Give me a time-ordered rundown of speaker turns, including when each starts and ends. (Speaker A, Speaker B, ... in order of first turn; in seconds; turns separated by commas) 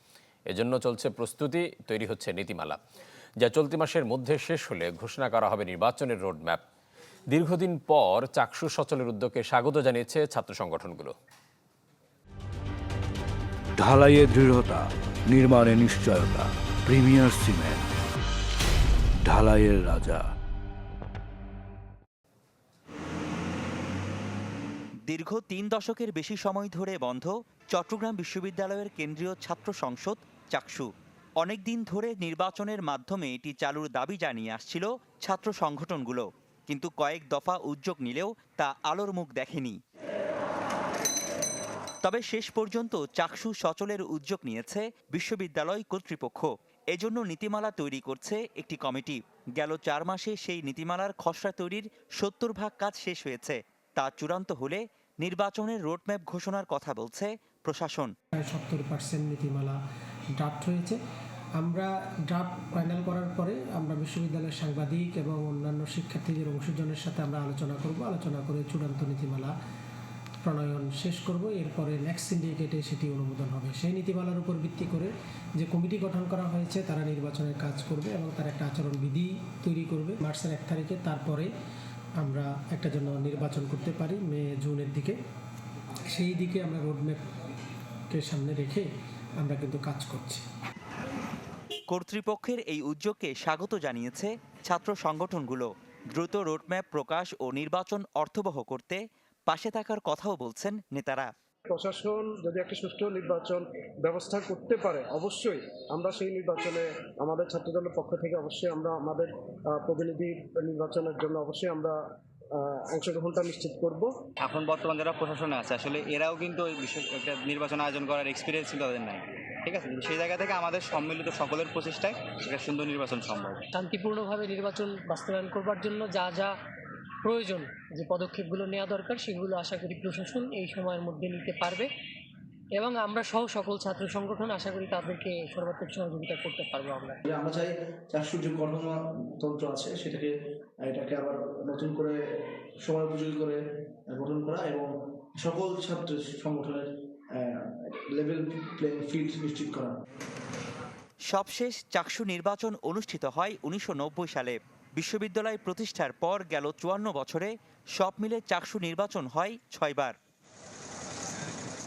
Speaker A: 0.5-2.8, Speaker A: 3.4-6.6, Speaker A: 7.3-11.1, Speaker B: 13.8-17.8, Speaker B: 19.2-20.2, Speaker C: 25.1-30.9, Speaker C: 31.4-39.8, Speaker C: 42.0-58.1, Speaker D: 58.4-59.8, Speaker D: 60.4-61.0, Speaker D: 61.6-69.5, Speaker D: 70.4-81.5, Speaker D: 82.2-85.2, Speaker D: 86.1-87.2, Speaker D: 88.1-88.9, Speaker D: 89.4-90.4, Speaker C: 91.9-101.3, Speaker E: 101.7-112.0, Speaker E: 112.5-114.1, Speaker F: 114.4-123.6, Speaker G: 123.7-126.5, Speaker G: 127.2-131.9, Speaker G: 132.8-137.2, Speaker H: 137.2-142.2, Speaker H: 142.8-149.9, Speaker C: 151.3-160.2